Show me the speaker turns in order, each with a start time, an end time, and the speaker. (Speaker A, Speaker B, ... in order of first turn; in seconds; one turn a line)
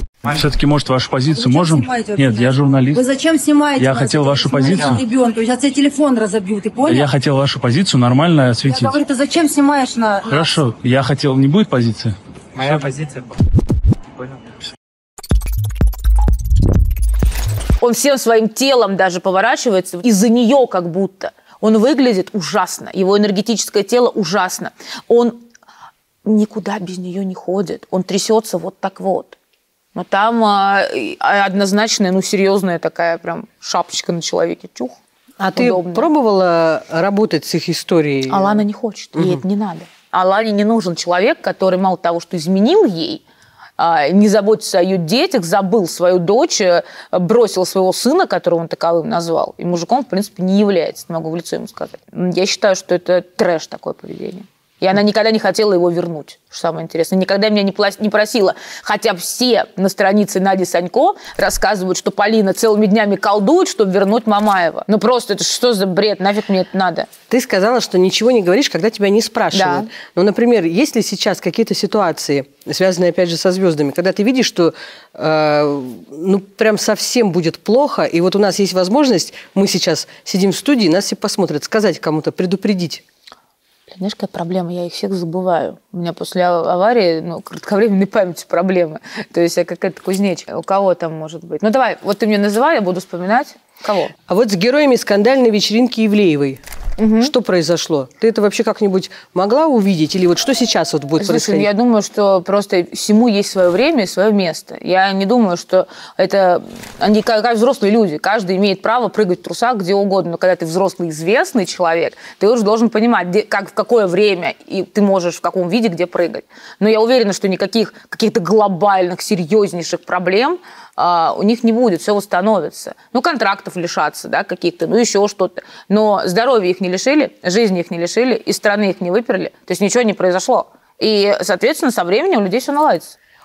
Speaker A: 0.2-3.0
Speaker B: 1.3-7.1
Speaker A: 3.8-5.0
Speaker A: 6.9-9.0
Speaker B: 8.7-10.6
Speaker A: 10.3-13.1
Speaker C: 17.8-25.4
Speaker C: 26.2-29.4
Speaker C: 29.9-35.0
Speaker D: 35.4-38.6
Speaker C: 35.5-36.1
Speaker C: 38.3-43.2
Speaker D: 39.1-39.4
Speaker C: 43.8-67.1
Speaker D: 67.3-83.0
Speaker C: 69.5-69.9
Speaker C: 83.9-94.1
Speaker D: 94.3-96.6
Speaker C: 97.0-97.3
Speaker D: 97.2-101.7
Speaker C: 101.2-133.2